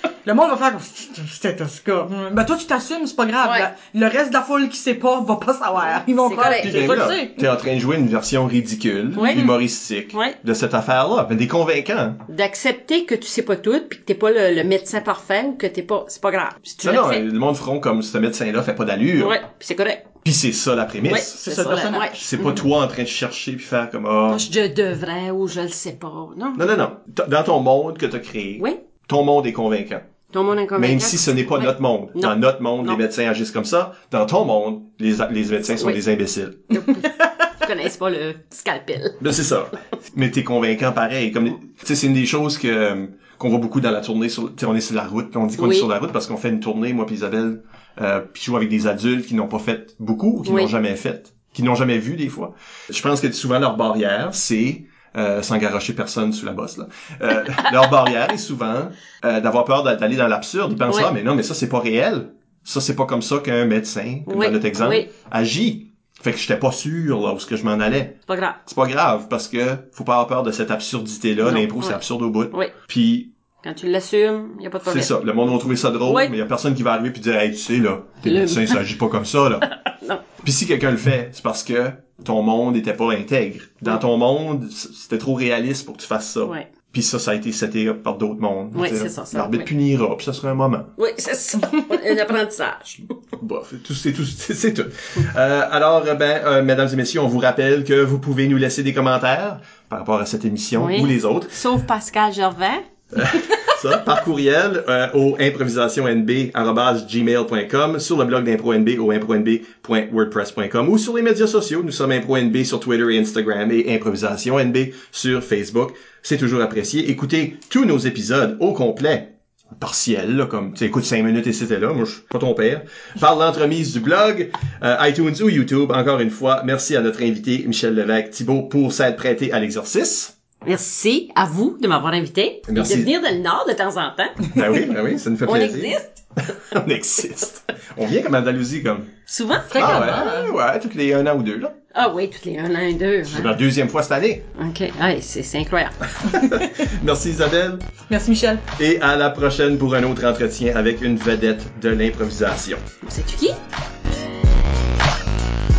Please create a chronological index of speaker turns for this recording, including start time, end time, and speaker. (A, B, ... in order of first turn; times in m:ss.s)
0:00.2-0:07.4 A
0:06.2-0:07.0 B
0:06.6-0:12.2 C
0:09.1-0:09.4 B
0:09.2-0:09.6 A
0:12.3-0:17.2 B
0:16.8-0:19.4 C
0:19.2-0:20.1 B
0:20.2-0:21.4 C
0:21.0-0:22.5 B
0:21.4-0:22.5 A
0:22.1-0:24.4 C
0:24.2-0:26.7 B
0:26.6-0:30.1 C
0:30.3-0:33.0 B
0:30.7-0:36.9 C
0:35.8-0:36.0 B
0:36.7-0:39.2 B
0:39.2-1:13.3 C
0:45.6-0:45.9 B
0:50.4-0:50.7 B
1:04.3-1:05.1 B
1:08.3-1:08.6 B
1:11.4-1:12.7 B
1:13.6-1:15.1 B
1:14.8-1:19.7 C
1:16.1-1:16.3 B
1:18.2-1:18.8 B
1:19.6-1:20.2 B
1:20.4-1:30.9 C
1:28.7-1:29.7 B
1:31.0-1:33.0 B
1:33.4-1:41.6 C
1:40.8-1:43.4 B
1:43.1-2:10.3 C
2:10.6-2:14.8 B
2:12.7-2:13.1 C
2:14.5-2:19.1 C
2:15.4-2:16.2 B
2:19.3-2:20.2 B
2:19.7-2:20.5 A
2:19.7-2:21.7 C
2:21.9-2:23.5 B
2:23.3-2:24.5 C
2:24.5-2:26.3 B
2:26.2-2:27.8 C
2:28.1-2:28.6 A
2:28.8-2:32.8 C
2:33.0-2:33.6 B